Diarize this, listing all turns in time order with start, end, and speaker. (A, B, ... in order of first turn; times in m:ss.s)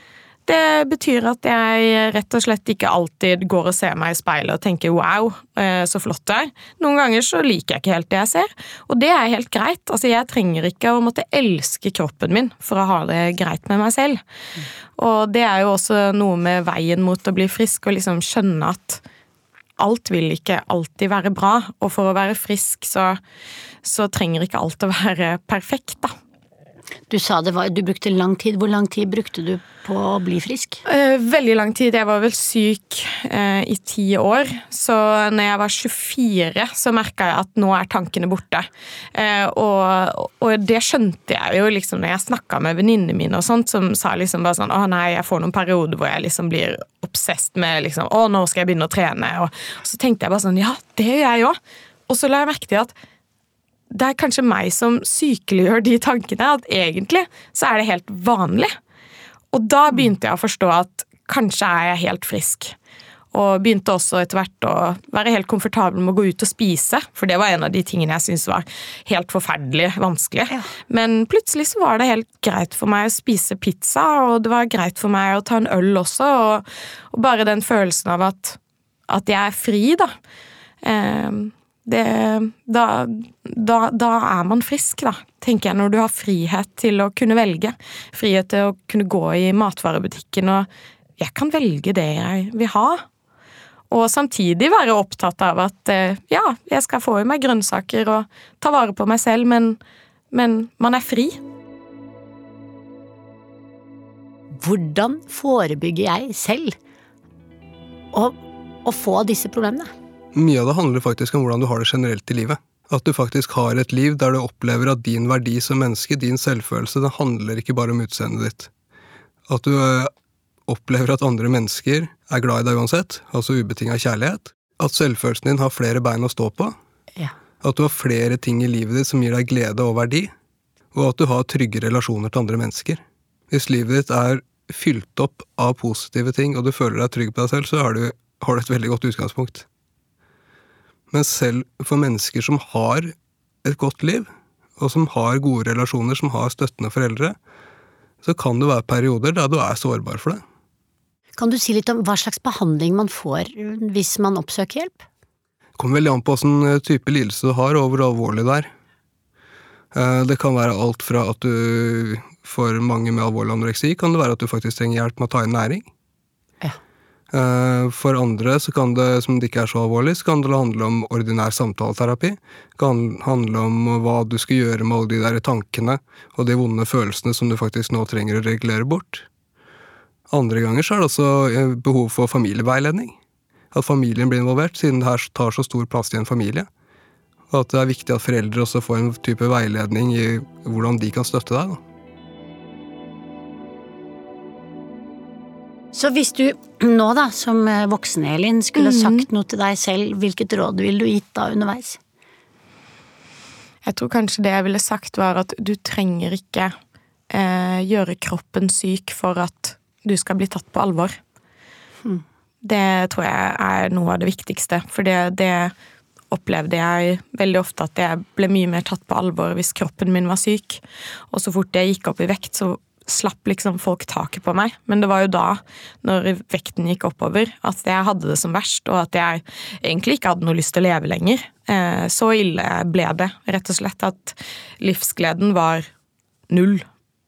0:00.5-0:14.2 A
0:15.0-0:19.0 A
0:19.8-0:23.2 A
0:23.8-0:26.1 A
0:27.1-0:30.8 B
0:30.8-0:51.6 A
0:52.1-0:52.9 A
0:53.9-0:58.7 A
0:59.5-1:02.8 A
1:03.3-1:20.1 A
1:20.8-1:33.0 A
1:33.9-1:39.8 A
1:40.3-1:41.4 A
1:44.6-1:46.8 B
1:48.1-1:49.9 B
1:50.3-1:58.7 C
1:59.5-2:00.1 C
2:00.7-2:06.8 C
2:07.6-2:10.3 C
2:10.9-2:19.7 C
2:21.1-2:23.1 C
2:23.6-2:24.3 C
2:24.8-2:27.4 C
2:28.2-2:30.4 C
2:31.4-2:35.1 B
2:35.8-2:38.7 C
2:39.9-2:45.9 C
2:47.3-2:59.3 C
3:00.3-3:03.2 C
3:03.7-3:06.7 C
3:07.5-3:11.8 C
3:15.9-3:22.0 B
3:18.8-3:19.3 A
3:23.8-3:26.7 A
3:27.3-3:31.2 A
3:32.6-3:35.7 A
3:36.3-3:55.9 A
3:56.5-3:56.8 A